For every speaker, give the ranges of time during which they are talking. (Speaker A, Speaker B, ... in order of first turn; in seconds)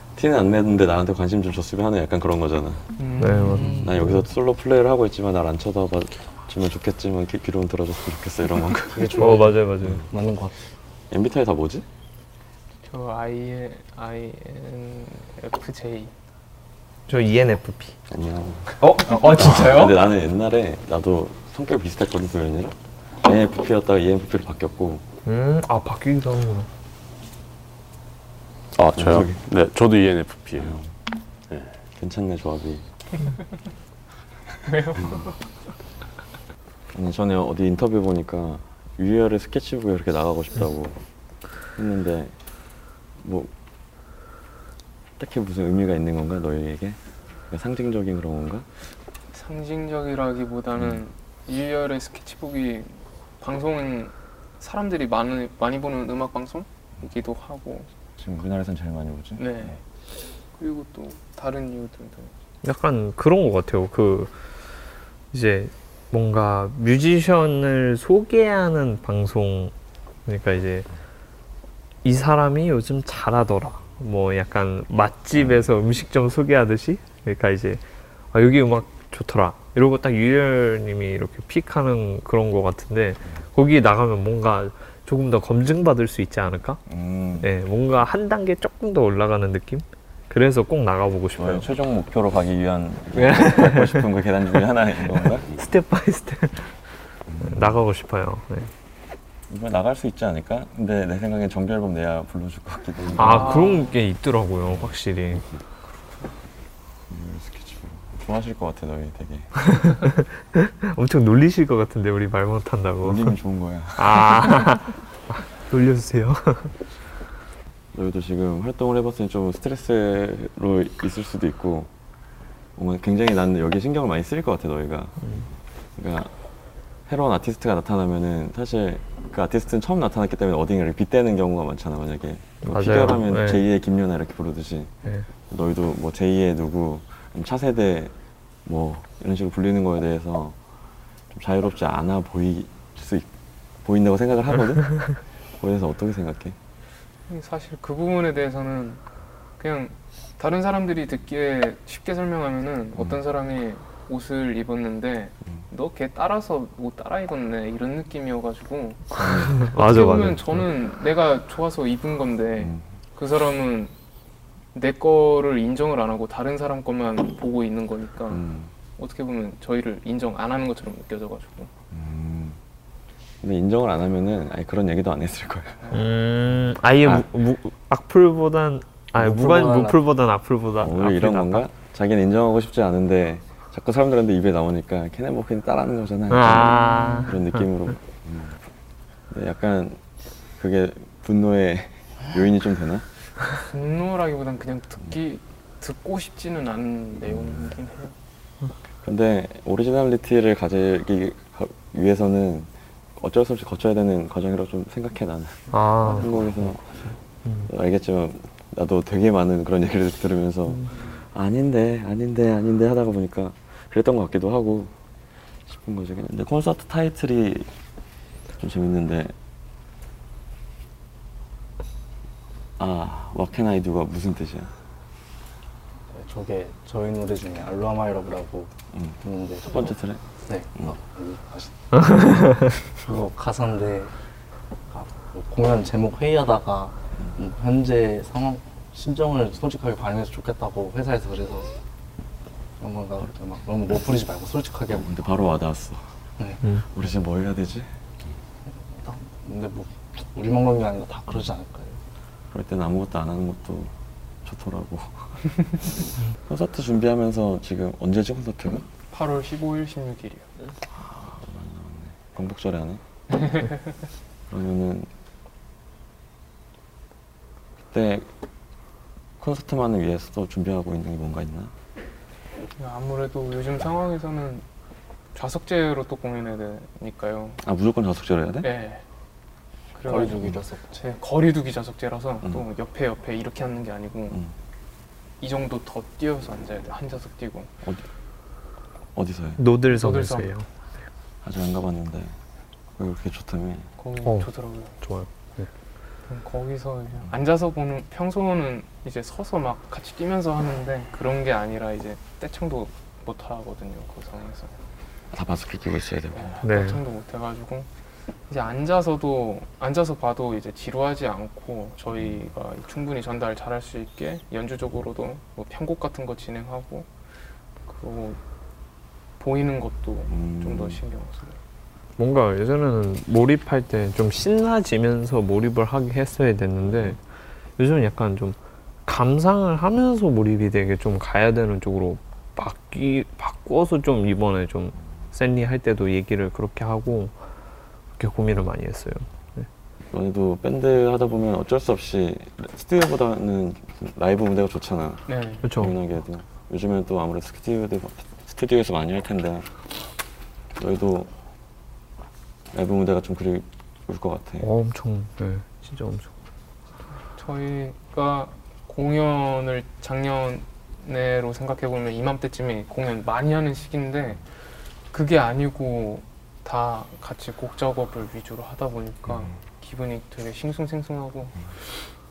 Speaker A: 0.2-3.0, 3.8-9.2, 11.1-11.9, 18.1-25.1, 29.0-29.4, 32.0-32.8, 36.9-41.0, 41.8-42.4, 43.2-43.5, 45.2-47.0, 47.5-48.7, 58.2-59.8, 75.4-75.7, 86.9-87.5, 91.4-95.5, 97.3-97.8, 99.5-103.6, 104.7-104.9, 107.1-109.5, 113.0-114.5, 117.9-121.9, 122.8-125.2, 126.0-126.3, 127.1-134.9, 135.5-138.1, 138.7-140.6, 141.3-143.3, 143.8-146.6, 159.2-159.7, 162.6-162.8, 168.3-168.7, 171.9-172.6, 173.4-175.8, 180.8-188.6, 189.3-190.0, 190.6-193.1, 197.3-197.8, 199.0-207.1, 207.7-214.9, 215.7-217.7, 218.6-219.3, 222.8-224.7, 228.9-230.2, 244.9-246.1, 246.9-247.9, 252.5-253.9, 254.4-258.9, 260.9-263.0, 264.5-265.1, 267.9-268.3, 269.4-271.7, 277.6-278.8, 284.3-284.6, 289.1-289.6, 291.4-292.3, 293.0-293.9, 305.3-306.6, 312.2-312.4, 320.3-321.0, 326.9-327.2, 340.1-349.7, 350.8-351.3, 352.7-354.7
Speaker B: 3.0-3.6, 12.8-16.1, 34.6-35.4, 49.3-57.9, 59.4-59.8, 60.5-62.3, 103.2-104.0, 147.3-149.0, 149.6-163.9, 164.7-168.4, 169.0-171.7, 175.8-176.1, 193.7-198.2, 259.1-260.5, 263.4-263.8, 272.8-274.6, 275.3-277.6, 278.6-279.0, 280.0-284.4, 285.4-287.7, 289.9-290.5, 294.0-294.9, 296.3-304.8, 306.3-307.9, 308.5-317.1, 317.9-318.4, 319.4-321.6, 345.3-345.7, 357.3-364.4, 365.1-371.7
Speaker C: 3.2-3.9, 9.1-10.1, 17.1-17.9, 18.8-20.0, 25.3-26.7, 62.6-64.3, 65.3-69.7, 70.3-70.9, 72.0-86.8, 87.4-91.7, 93.1-94.2, 95.1-96.7, 97.4-98.7, 103.2-105.5, 109.6-113.4, 114.0-116.7, 132.6-133.6, 159.3-160.6, 175.9-181.7, 186.3-187.5, 205.7-206.6, 289.6-290.7, 294.2-294.5, 295.0-295.7, 306.6-307.0, 322.2-327.2, 327.8-337.3, 338.2-339.7, 345.6-346.0, 354.6-356.3
Speaker D: 3.2-4.3, 8.9-10.6, 179.2-180.0, 226.1-228.7, 229.2-229.9, 230.5-234.1, 234.9-241.7, 242.8-245.1, 246.4-246.6, 248.9-252.0, 280.0-281.0
Speaker E: 28.8-30.8, 31.5-31.8